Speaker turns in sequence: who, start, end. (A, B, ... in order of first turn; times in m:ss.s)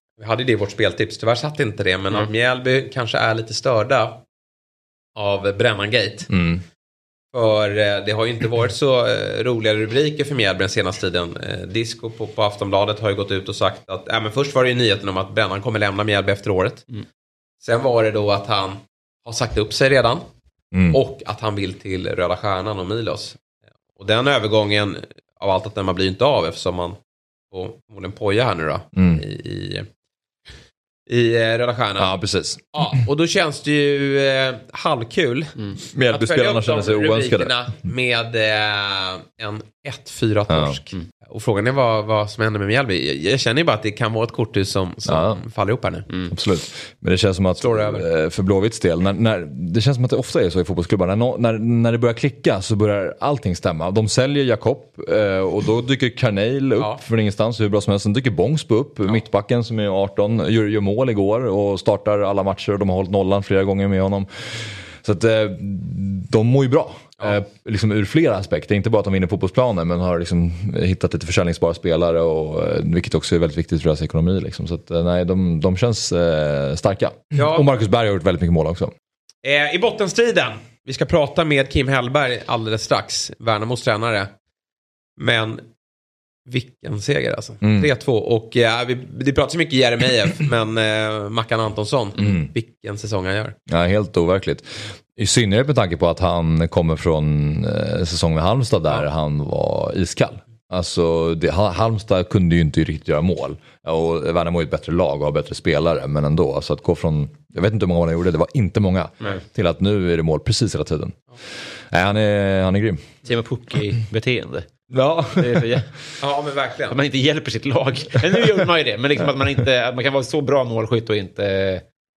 0:00.2-0:04.2 A
0:05.2-0:06.3 A
0:06.3-0:06.6 B
0:07.3-0:16.8 A
0:17.6-0:20.2 A
0:20.7-0:21.0 B
0:20.9-0:23.4 A
0:24.0-0:27.0 A
0:27.5-0:29.9 A
0:29.0-0:29.2 B
0:31.1-0:32.2 A
0:32.0-0:32.8 B
0:32.7-0:35.6 A
0:35.9-0:37.5 B
0:36.1-0:46.1 A
0:40.5-0:40.8 B
0:45.1-0:45.4 B
0:46.3-1:18.9 B
0:47.6-0:48.1 A
1:17.4-1:17.7 A
1:19.4-1:24.3 A
1:25.2-1:25.7 A
1:26.5-1:33.6 A
1:27.6-1:27.9 B
1:32.2-1:32.5 B
1:33.7-1:51.2 B
1:51.9-1:53.1 B
1:53.2-1:55.9 C
1:54.9-1:55.7 B
1:56.2-1:57.0 A
1:56.9-2:01.8 C